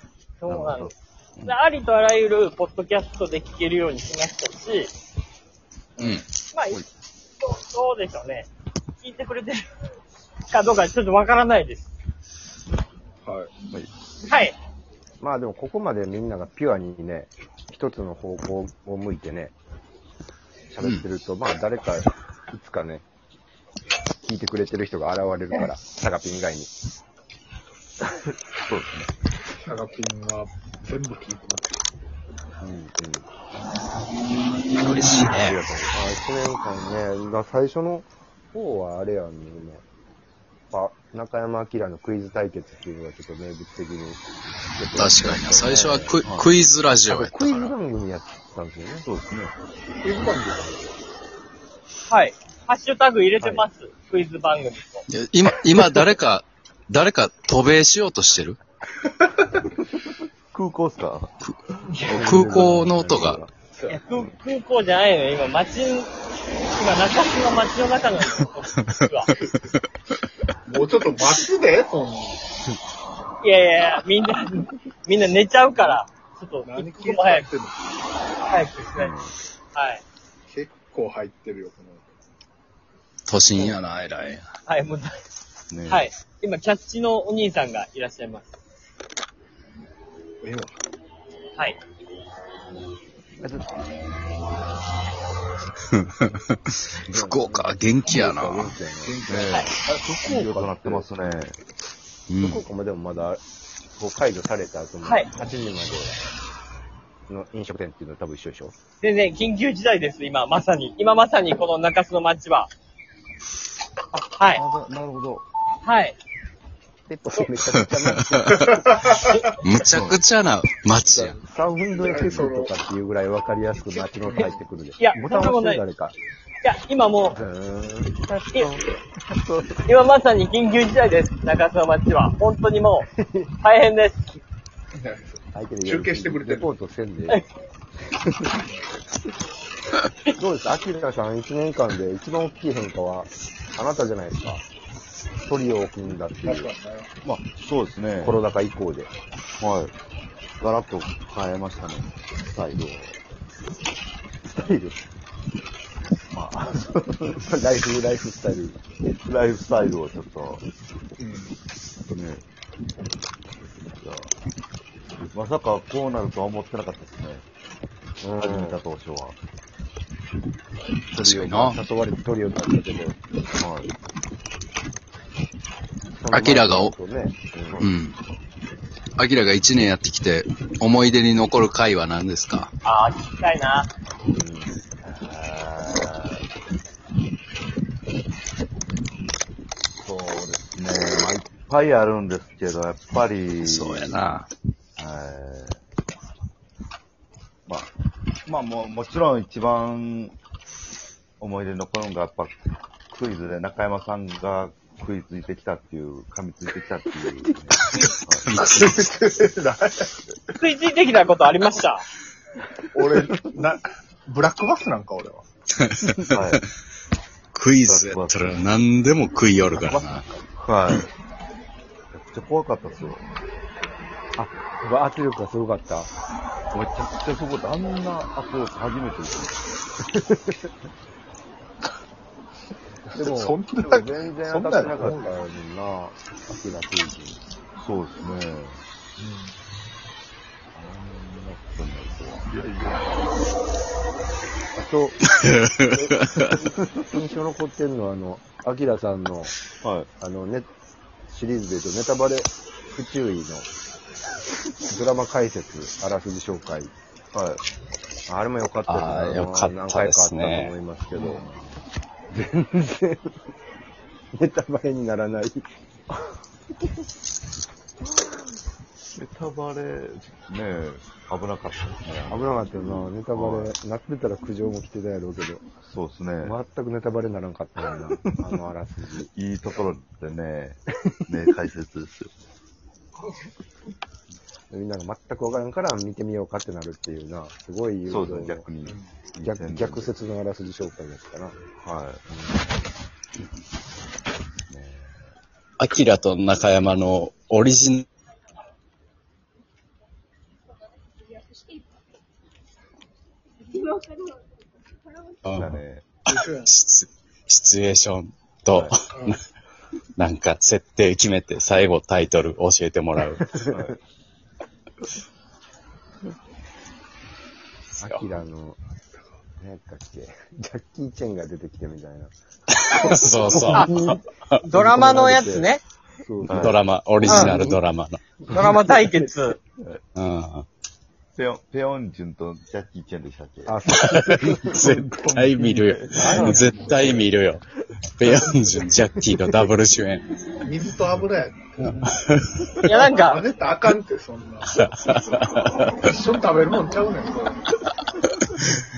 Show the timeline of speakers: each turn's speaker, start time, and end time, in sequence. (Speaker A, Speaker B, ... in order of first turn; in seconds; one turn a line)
Speaker A: 0.4-0.9
Speaker B: 0.5-0.9
Speaker A: 1.4-4.9
Speaker C: 6.0-6.2
Speaker B: 6.0-6.8
Speaker A: 6.5-6.8
Speaker A: 7.4-8.5
Speaker A: 9.0-9.6
Speaker A: 10.5-11.9
Speaker D: 13.2-13.5
Speaker A: 14.2-14.5
Speaker E: 15.2-19.5
Speaker E: 20.7-23.0
Speaker E: 24.2-26.7
Speaker B: 28.5-29.1
Speaker D: 29.6-31.7
Speaker E: 32.6-33.3
Speaker C: 34.8-35.6
Speaker B: 35.3-36.0
Speaker E: 35.9-39.8
Speaker E: 40.7-46.1
Speaker C: 44.9-47.7
Speaker B: 46.2-46.5
Speaker E: 47.0-49.1
Speaker B: 49.0-49.5
Speaker D: 50.0-50.7
Speaker A: 52.1-55.0
Speaker E: 53.4-53.7
Speaker C: 55.1-58.6
Speaker B: 60.5-61.3
Speaker C: 61.4-63.4
Speaker E: 62.0-63.5
Speaker B: 62.1-62.5
Speaker A: 63.9-66.1
Speaker A: 66.7-69.3
Speaker D: 70.7-72.4
Speaker A: 73.4-77.5
Speaker D: 76.7-77.8
Speaker A: 78.4-79.1
Speaker B: 79.0-79.3
Speaker A: 79.7-80.0
Speaker D: 80.5-82.0
Speaker C: 83.3-84.5
Speaker A: 84.7-85.2
Speaker B: 85.7-86.1
Speaker A: 85.9-88.5
Speaker D: 90.4-90.8
Speaker E: 93.4-93.7
Speaker C: 96.0-96.4
Speaker C: 97.0-98.7
Speaker E: 97.0-101.1
Speaker D: 99.0-99.5
Speaker B: 99.2-101.6
Speaker C: 102.3-102.6
Speaker E: 102.4-103.4
Speaker E: 104.0-106.2
Speaker A: 105.0-105.3
Speaker E: 107.3-108.7
Speaker A: 109.0-112.7
Speaker A: 114.1-114.6
Speaker B: 114.5-115.5
Speaker A: 115.8-116.2
Speaker E: 117.1-119.0
Speaker C: 117.7-118.6
Speaker D: 118.8-119.1
Speaker C: 119.6-121.4
Speaker B: 119.8-120.2
Speaker E: 121.0-126.2
Speaker D: 122.0-122.7
Speaker D: 124.2-124.5
Speaker A: 125.0-125.8
Speaker A: 126.6-127.4
Speaker E: 127.3-128.2
Speaker B: 128.3-128.8
Speaker E: 129.2-129.8
Speaker A: 129.8-133.1
Speaker E: 133.2-133.5
Speaker A: 133.6-134.3
Speaker D: 134.9-136.6
Speaker E: 135.5-137.4
Speaker E: 140.3-144.6
Speaker E: 145.4-146.7
Speaker D: 146.4-147.1
Speaker B: 147.2-148.4
Speaker E: 148.2-149.1
Speaker B: 149.6-149.9
Speaker B: 150.6-153.2
Speaker E: 154.4-155.0
Speaker B: 156.3-157.4
Speaker E: 156.6-158.8
Speaker B: 159.0-160.7
Speaker D: 161.2-161.5
Speaker B: 162.1-162.4
Speaker B: 163.6-164.3
Speaker B: 165.1-167.4
Speaker E: 168.2-168.8
Speaker B: 168.4-169.4
Speaker C: 171.1-171.8
Speaker E: 171.1-173.2
Speaker B: 173.6-173.9
Speaker E: 176.1-177.8
Speaker C: 176.3-176.9
Speaker B: 177.6-177.9
Speaker C: 177.8-178.2
Speaker C: 179.2-182.7
Speaker A: 182.8-183.9
Speaker E: 184.3-184.7
Speaker B: 185.0-186.4
Speaker B: 190.0-194.2
Speaker C: 193.6-194.5
Speaker B: 195.0-195.8
Speaker B: 198.4-200.3
Speaker B: 201.4-202.6
Speaker B: 203.1-208.5
Speaker C: 208.5-208.9
Speaker D: 208.9-210.2
Speaker A: 210.6-212.1
Speaker B: 213.0-213.4
Speaker D: 213.0-215.4
Speaker C: 215.8-216.6
Speaker B: 216.3-216.6
Speaker C: 217.5-220.2
Speaker B: 217.8-218.6
Speaker B: 219.6-221.1
Speaker B: 222.1-223.3
Speaker E: 224.4-226.1
Speaker B: 226.7-229.6
Speaker E: 230.0-230.7
Speaker E: 233.1-237.4
Speaker D: 233.3-235.3
Speaker B: 237.8-238.8
Speaker D: 239.2-239.5
Speaker E: 240.8-241.5
Speaker B: 241.1-242.5
Speaker D: 242.5-243.0
Speaker E: 244.8-245.2
Speaker C: 245.3-246.6
Speaker E: 245.9-249.6
Speaker B: 249.8-250.1
Speaker E: 250.2-250.7
Speaker E: 251.3-253.7
Speaker E: 254.9-256.9
Speaker B: 257.3-257.6
Speaker E: 258.3-261.5
Speaker C: 258.9-260.7
Speaker B: 261.1-261.6
Speaker E: 262.3-263.4
Speaker E: 264.3-266.3
Speaker E: 268.0-268.5
Speaker B: 269.1-273.7
Speaker E: 272.3-275.6
Speaker B: 275.8-276.6
Speaker E: 276.4-279.3
Speaker B: 278.2-278.5
Speaker B: 279.3-282.3
Speaker E: 284.7-288.7
Speaker B: 288.1-290.1
Speaker D: 288.9-289.1
Speaker E: 289.4-291.5
Speaker B: 291.8-292.2
Speaker E: 292.3-292.6
Speaker B: 294.7-295.2
Speaker C: 295.8-298.0
Speaker C: 305.4-305.8
Speaker B: 305.5-306.2
Speaker D: 306.3-306.7
Speaker C: 306.3-309.4
Speaker B: 308.7-309.1
Speaker C: 310.2-313.5
Speaker E: 313.4-313.7
Speaker B: 313.7-314.0
Speaker E: 318.0-318.8
Speaker E: 319.6-325.7
Speaker C: 322.9-324.2
Speaker A: 323.7-325.8
Speaker E: 326.2-327.8
Speaker C: 326.5-328.2
Speaker B: 326.5-327.7
Speaker E: 328.5-329.3
Speaker A: 328.5-329.6
Speaker C: 330.1-330.6
Speaker B: 331.4-333.8
Speaker E: 333.6-334.8
Speaker C: 334.0-337.6
Speaker B: 334.7-337.3
Speaker E: 336.1-337.2
Speaker C: 338.2-340.3
Speaker E: 339.2-339.7
Speaker D: 340.6-341.8
Speaker C: 341.8-342.9
Speaker A: 342.8-343.4
Speaker D: 343.3-344.8
Speaker C: 344.8-346.0
Speaker D: 346.1-347.7
Speaker C: 348.2-348.7